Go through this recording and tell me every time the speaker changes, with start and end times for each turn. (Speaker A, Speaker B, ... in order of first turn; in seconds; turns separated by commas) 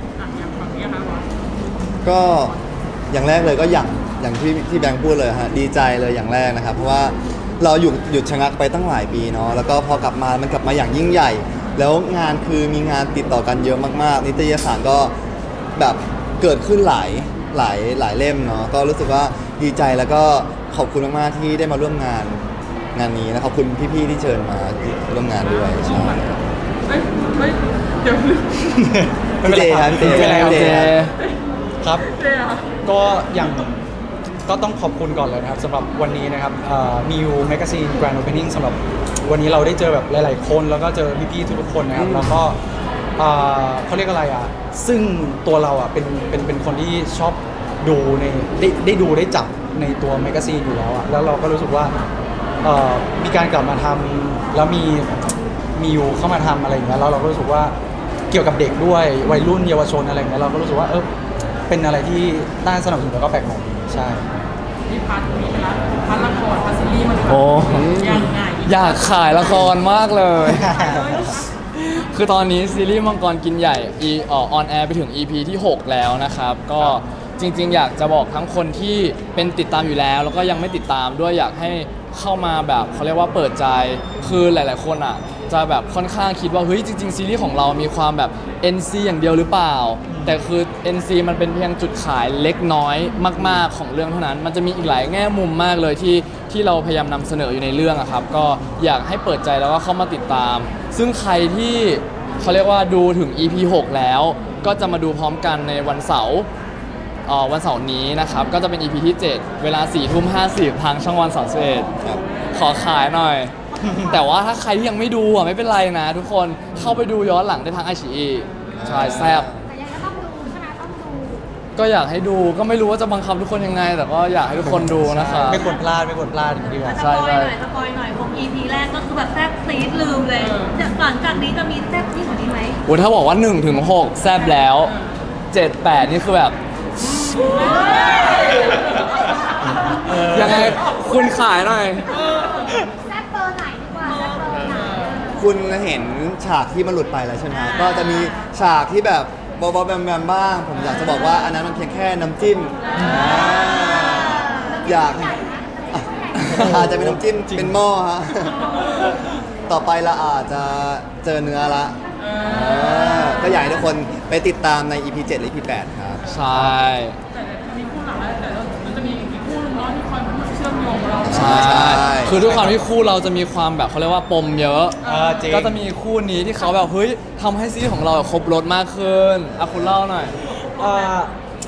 Speaker A: 0.2-1.3, Speaker B: 2.0-2.5, Speaker B: 3.1-15.1, Speaker B: 15.8-22.4, Speaker B: 22.9-26.4, Speaker A: 25.5-26.2, Speaker A: 26.9-28.6, Speaker C: 28.6-30.7, Speaker B: 29.4-31.0, Speaker D: 30.1-31.2, Speaker C: 31.8-32.1, Speaker A: 32.1-32.7, Speaker C: 32.8-33.8, Speaker C: 34.5-42.6, Speaker D: 41.9-42.4, Speaker C: 43.2-52.0, Speaker C: 52.6-57.8, Speaker C: 58.3-61.1, Speaker C: 61.7-64.3, Speaker A: 64.9-69.7, Speaker D: 67.3-70.8, Speaker C: 70.4-71.3, Speaker A: 70.5-71.5, Speaker D: 71.7-106.5, Speaker C: 90.1-90.4, Speaker D: 107.3-111.9, Speaker D: 112.5-119.5, Speaker C: 113.8-114.2, Speaker B: 118.8-119.7, Speaker E: 119.7-121.5, Speaker D: 121.8-125.7, Speaker C: 124.6-127.0, Speaker E: 126.9-132.8, Speaker D: 126.9-127.5, Speaker A: 130.4-130.8, Speaker D: 132.8-134.9, Speaker D: 135.5-136.6, Speaker A: 137.3-139.0, Speaker E: 137.8-138.5, Speaker D: 140.0-142.2, Speaker C: 140.0-140.8, Speaker E: 142.3-145.0, Speaker A: 144.3-145.0, Speaker B: 145.3-159.1, Speaker C: 153.0-153.4, Speaker E: 153.7-156.4, Speaker D: 156.4-156.8, Speaker C: 156.5-157.7, Speaker B: 159.7-166.7, Speaker A: 162.2-163.6, Speaker D: 166.3-167.2, Speaker A: 167.3-172.5, Speaker B: 171.2-172.4, Speaker D: 171.3-180.4, Speaker C: 172.4-172.7, Speaker A: 175.0-175.6, Speaker C: 175.1-175.8, Speaker C: 180.8-181.3